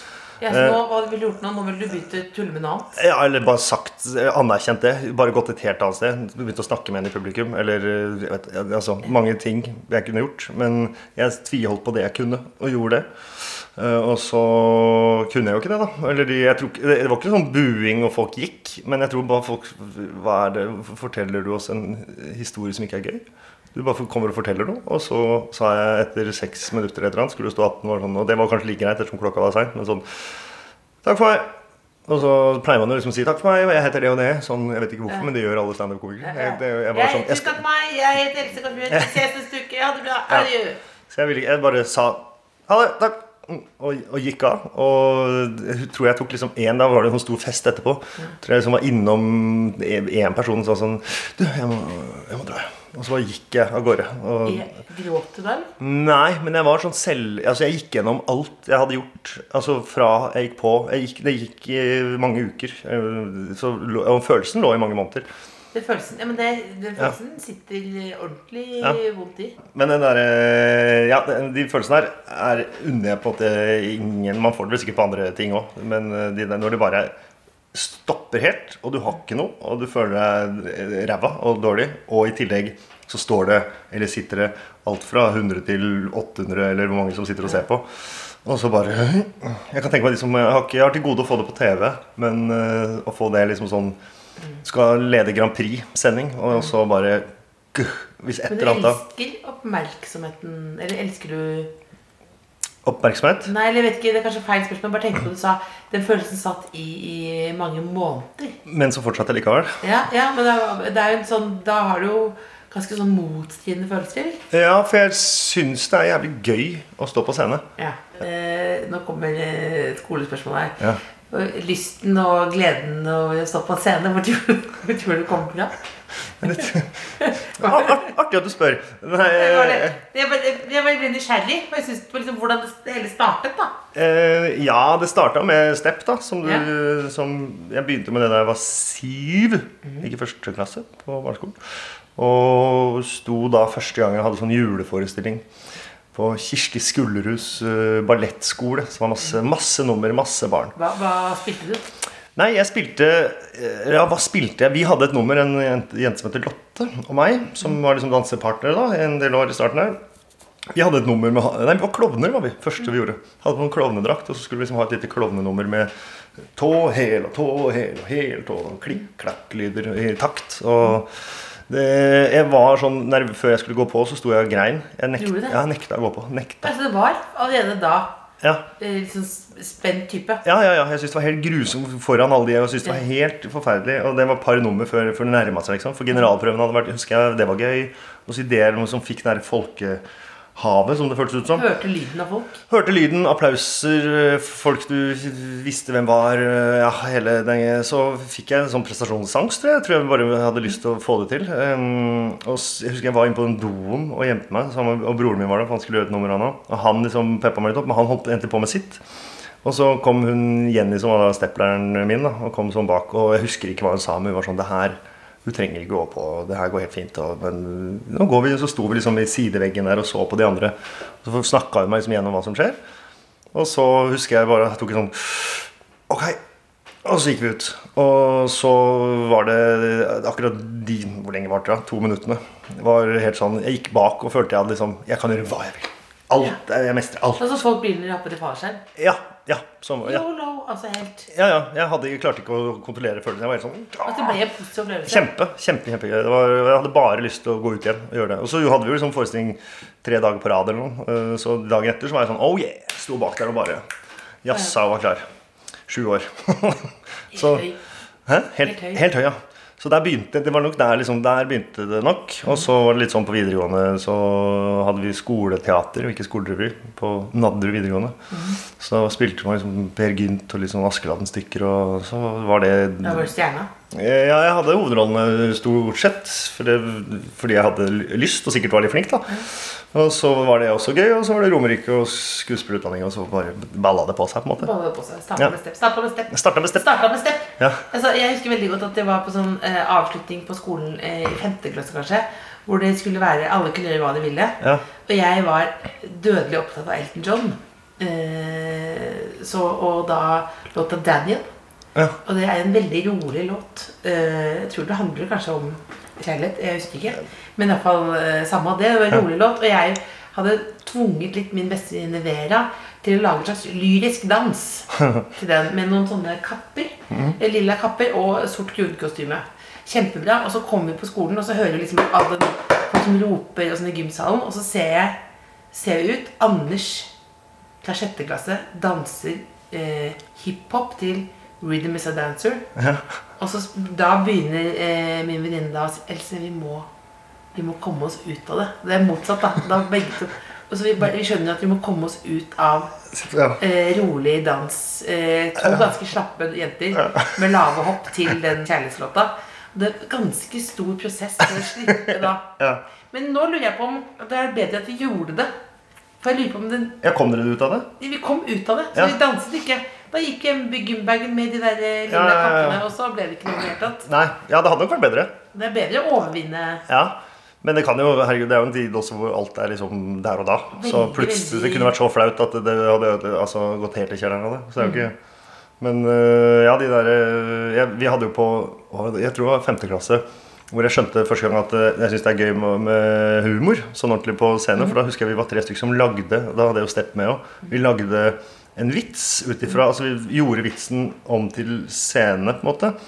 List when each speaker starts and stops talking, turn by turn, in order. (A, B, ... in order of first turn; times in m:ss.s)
0:00.4-0:02.9 A
0:00.5-0:00.8 B
0:02.9-0:30.0 B
0:31.0-0:31.5 B
0:32.1-0:37.6 B
0:36.2-0:40.8 A
0:41.1-0:54.7 B
0:54.4-0:55.7 A
0:55.8-1:05.3 B
1:05.7-1:09.6 A
1:09.7-1:17.1 B
1:17.7-1:34.0 B
1:34.6-1:39.0 B
1:38.5-1:41.7 A
1:42.8-1:43.5 B
1:43.4-1:48.6 A
1:48.6-1:49.8 B
1:49.8-1:54.4 A
1:54.5-1:57.6 B
1:57.8-2:05.8 A
2:06.4-2:10.0 B
2:07.2-2:08.0 A
2:09.2-2:13.7 A
2:13.9-2:21.6 B
2:22.2-2:25.4 B
2:26.1-2:30.7 B
2:30.8-2:31.8 A
2:32.4-2:40.0 B
2:40.7-2:45.9 B
2:46.5-2:56.7 B
2:55.2-2:55.6 A
2:56.6-2:58.2 A
2:58.4-2:58.7 B
2:58.8-3:00.4 A
3:00.4-3:10.0 B
3:10.5-3:11.7 B
3:11.5-3:12.6 A
3:12.7-3:29.0 B
3:29.6-3:42.8 B
3:43.5-3:46.4 B
3:47.0-3:57.4 B
3:57.4-3:58.8 A
3:59.0-4:00.2 B
4:00.0-4:01.3 A
4:01.3-4:04.4 B
4:04.0-4:05.3 A
4:05.0-4:13.8 B
4:14.4-4:15.2 B
4:15.9-4:17.7 B
4:17.3-4:17.8 A
4:18.2-4:28.2 B
4:18.6-4:19.0 A
4:28.3-4:28.6 A
4:28.7-4:33.3 B
4:33.0-4:33.7 A
4:33.9-4:44.7 B
4:44.6-5:01.5 A
4:46.3-4:46.9 B
4:47.6-4:47.8 B
5:02.2-5:27.1 A
5:27.8-5:32.7 A
5:32.8-5:33.0 B
5:33.4-5:36.9 A
5:37.5-5:42.9 A
5:43.1-5:43.6 B
5:43.6-5:52.5 A
5:47.0-5:47.3 B
5:51.9-5:52.8 B
5:53.1-5:55.5 A
5:56.2-5:57.0 A
5:57.0-5:57.9 B
5:58.0-6:04.0 A
6:02.1-6:02.8 B
6:04.0-6:05.4 B
6:05.5-6:06.8 A
6:06.9-6:15.2 B
6:10.8-6:11.9 A
6:15.8-6:32.9 B